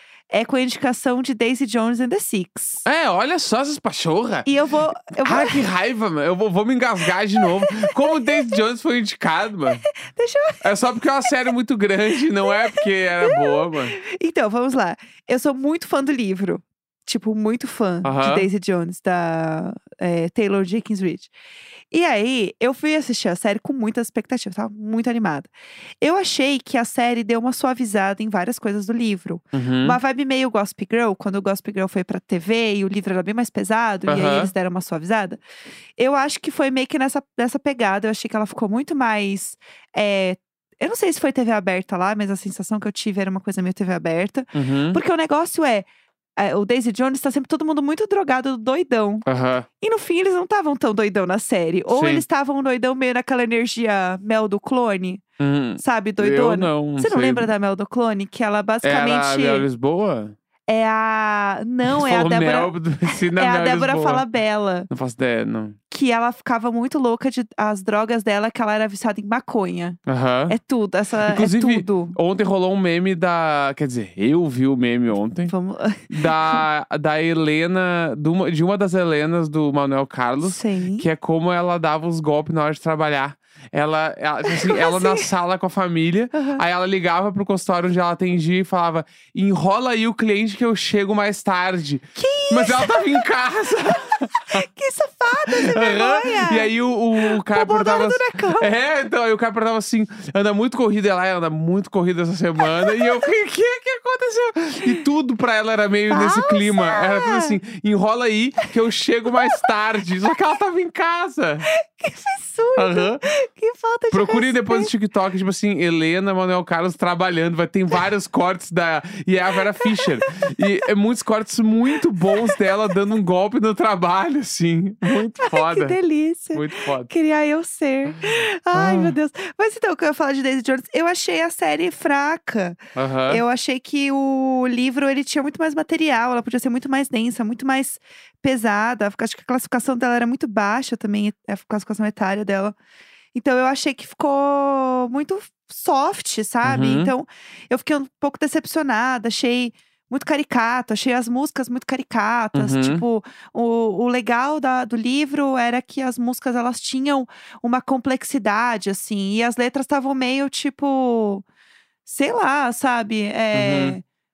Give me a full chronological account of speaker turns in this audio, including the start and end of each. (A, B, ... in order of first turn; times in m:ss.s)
0:00.3-0:02.8 A
0:02.8-0:04.5 B
0:04.4-0:05.6 A
0:05.1-0:09.8 B
0:07.4-0:08.6 A
0:10.0-0:10.6 A
0:10.6-0:14.0 B
0:12.4-0:21.3 A
0:18.0-0:18.5 B
0:21.9-0:35.4 A
0:29.5-0:30.0 B
0:34.1-0:34.5 B
0:36.0-0:49.2 A
0:44.5-0:45.0 B
0:49.2-0:49.7 B
0:49.8-0:55.2 A
0:51.9-0:52.2 B
0:55.4-0:57.5 B
0:55.8-0:59.7 A
0:58.8-1:00.4 B
1:00.7-1:04.9 A
1:01.9-1:04.2 B
1:04.9-1:05.8 B
1:05.9-1:12.2 A
1:10.0-1:10.6 B
1:11.2-1:15.5 B
1:15.5-1:16.6 A
1:16.1-1:34.6 B
1:20.4-1:21.1 A
1:24.4-1:25.3 A
1:26.3-1:26.6 A
1:32.2-1:33.2 A
1:33.8-1:38.7 A
1:35.5-1:51.7 B
1:42.8-1:43.2 A
1:46.1-1:47.6 A
1:51.7-1:54.9 A
1:52.8-1:53.2 B
1:54.1-2:06.0 B
1:59.8-2:00.2 A
2:02.3-2:02.6 A
2:05.4-2:22.8 A
2:06.5-2:07.1 B
2:08.7-2:09.1 B
2:12.9-2:13.4 B
2:23.3-2:41.4 A
2:26.6-2:27.1 B
2:32.5-2:33.0 B
2:42.0-2:44.0 A
2:43.5-2:44.0 B